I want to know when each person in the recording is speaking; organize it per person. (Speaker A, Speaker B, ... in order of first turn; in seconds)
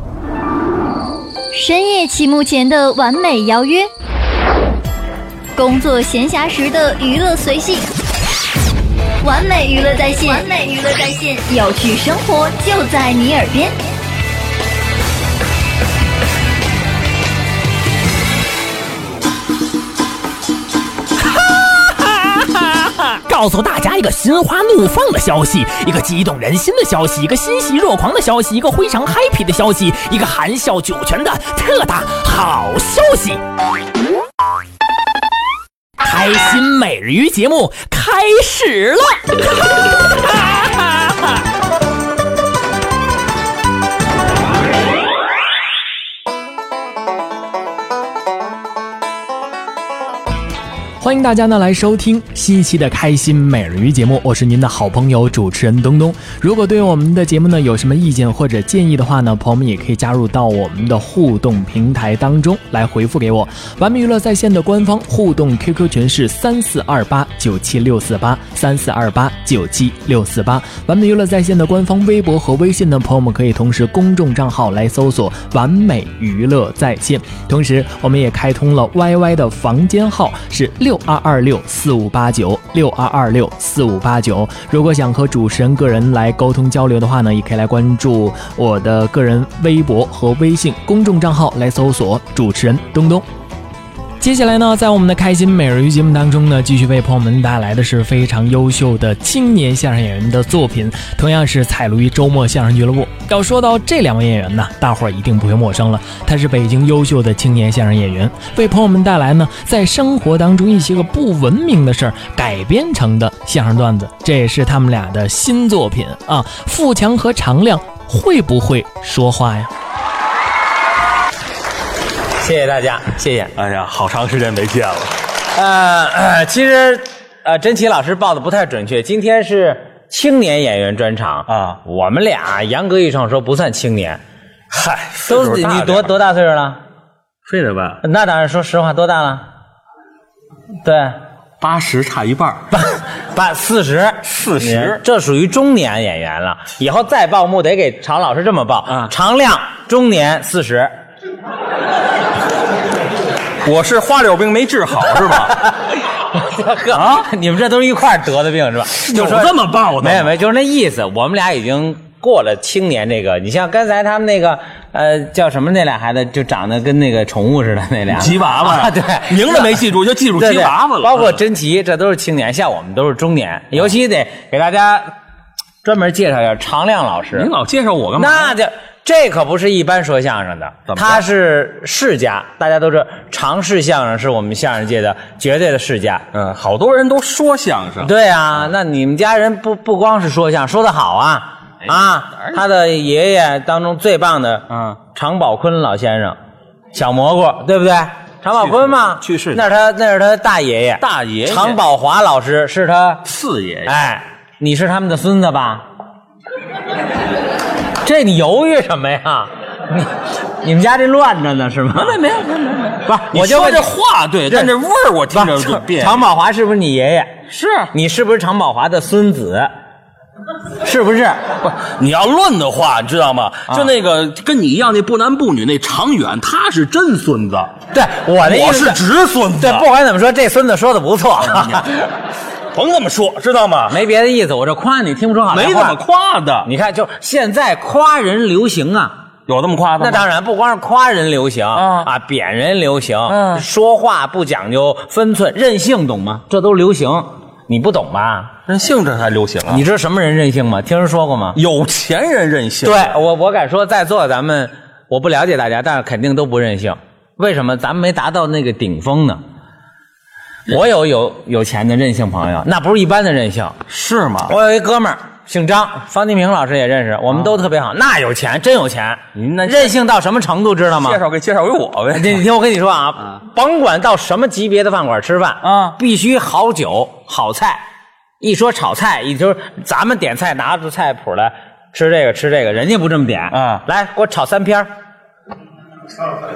Speaker A: 1.5-3.9, 5.5-7.9, 9.2-13.7
Speaker B: 21.3-33.4, 36.0-41.0
Speaker C: 51.0-93.2, 94.2-119.7
Speaker D: 122.4-123.5, 125.5-134.2, 135.3-136.8, 138.0-139.4, 140.8-141.2, 142.7-150.9, 155.5-155.7, 156.3-169.8, 170.4-175.1, 175.8-177.5, 178.2-186.2, 188.0-196.4, 196.9-203.2, 203.8-205.8, 208.0-210.1, 210.6-212.2, 213.0-213.9, 215.3-217.3, 217.9-219.7, 220.8-221.4, 227.9-229.0, 229.6-231.9, 233.9-236.0, 236.6-239.2, 240.0-248.5, 249.7-251.6, 252.8-259.4, 260.7-263.8, 264.5-271.2, 272.1-277.8, 278.4-284.9
Speaker E: 123.5-125.1, 131.5-131.8, 134.7-136.1, 137.5-138.0, 141.6-142.6, 144.2-145.0, 153.6-155.6, 156.9-157.3, 159.0-160.3, 168.1-171.4, 177.3-178.6, 180.9-181.2, 186.3-188.1, 191.8-192.6, 194.7-195.0, 198.6-199.6, 201.0-201.8, 203.2-203.9, 211.9-216.3, 217.5-217.9, 221.6-227.7, 228.4-229.9, 231.4-231.9, 232.7-234.0, 235.5-236.7, 239.5-240.2, 241.8-242.1, 243.3-243.6, 248.7-249.8, 251.5-253.2, 263.9-264.5, 269.3-269.9, 271.0-272.4, 275.6-276.0, 283.5-283.8